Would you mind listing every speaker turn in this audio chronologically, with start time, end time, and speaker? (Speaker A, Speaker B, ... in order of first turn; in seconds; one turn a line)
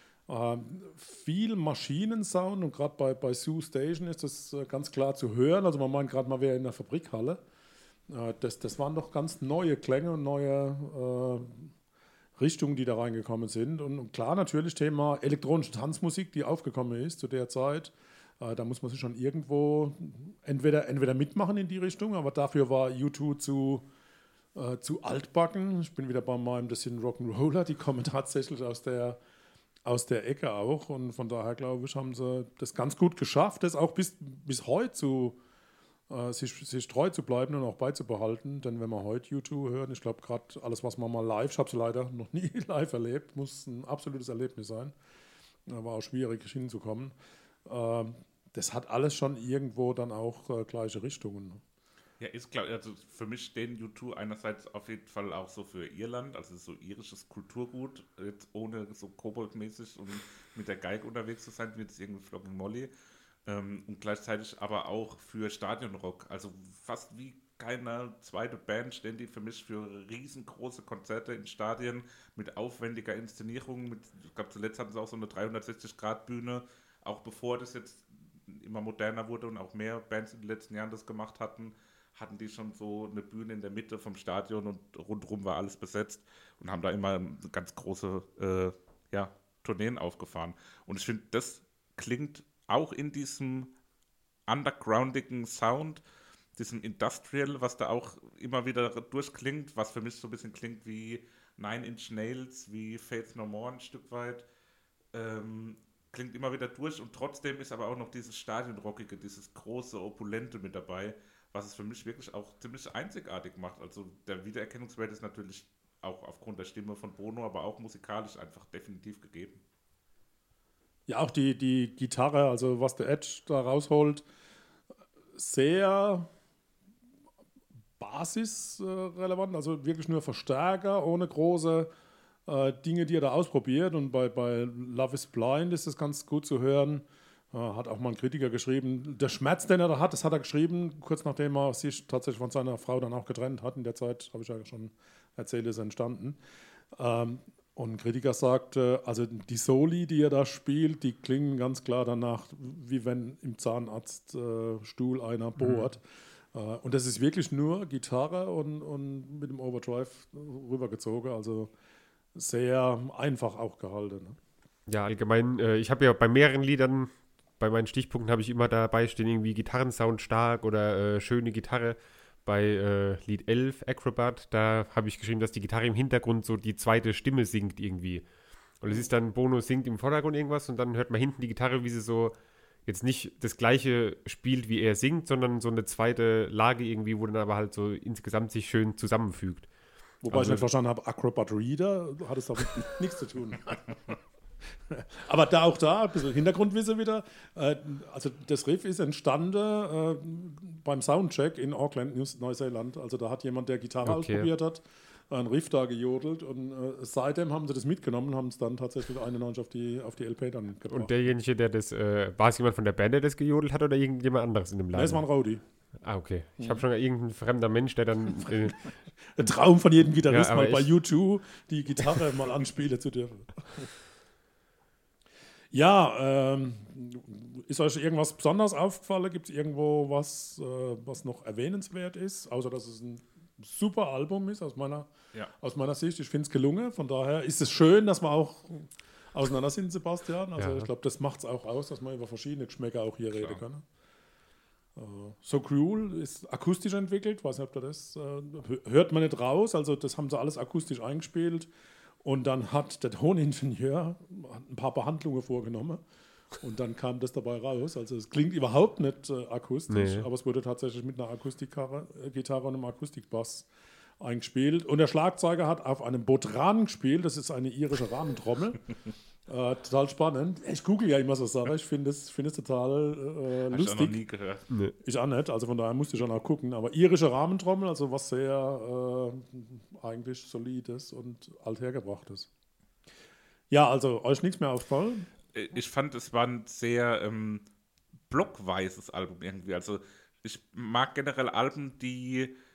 Speaker A: 0.3-7.4
Speaker A: 8.1-11.7
Speaker A: 12.4-23.9
Speaker A: 24.5-29.2
Speaker A: 29.8-35.4
Speaker A: 36.1-44.9
Speaker A: 45.7-47.1
Speaker A: 47.7-51.6
Speaker B: 52.2-62.9
Speaker B: 63.5-93.7
Speaker B: 94.5-96.0
Speaker B: 96.6-104.5
Speaker B: 105.1-119.6
Speaker A: 121.1-124.2
Speaker A: 125.3-126.3
Speaker A: 128.0-131.9
Speaker A: 132.4-146.4
Speaker A: 146.9-161.7
Speaker C: 155.6-155.9
Speaker A: 162.3-164.4
Speaker C: 164.9-178.3
Speaker C: 178.8-182.3
Speaker C: 182.8-189.7
Speaker A: 190.2-194.2
Speaker C: 190.3-190.7
Speaker A: 194.9-211.1
Speaker C: 204.0-204.5
Speaker C: 210.9-215.2
Speaker A: 214.9-215.6
Speaker C: 216.0-218.9
Speaker A: 218.4-218.7
Speaker A: 219.2-223.9
Speaker C: 220.3-220.9
Speaker A: 225.7-235.1
Speaker A: 235.6-243.8
Speaker C: 240.6-240.9
Speaker B: 243.3-243.6
Speaker A: 244.9-251.7
Speaker A: 252.2-256.0
Speaker A: 256.6-263.7
Speaker C: 259.9-260.3
Speaker A: 264.2-268.9
Speaker A: 269.5-274.2
Speaker B: 273.7-274.7
Speaker A: 275.0-282.5
Speaker A: 283.7-285.3
Speaker B: 285.5-287.6
Speaker B: 288.3-292.5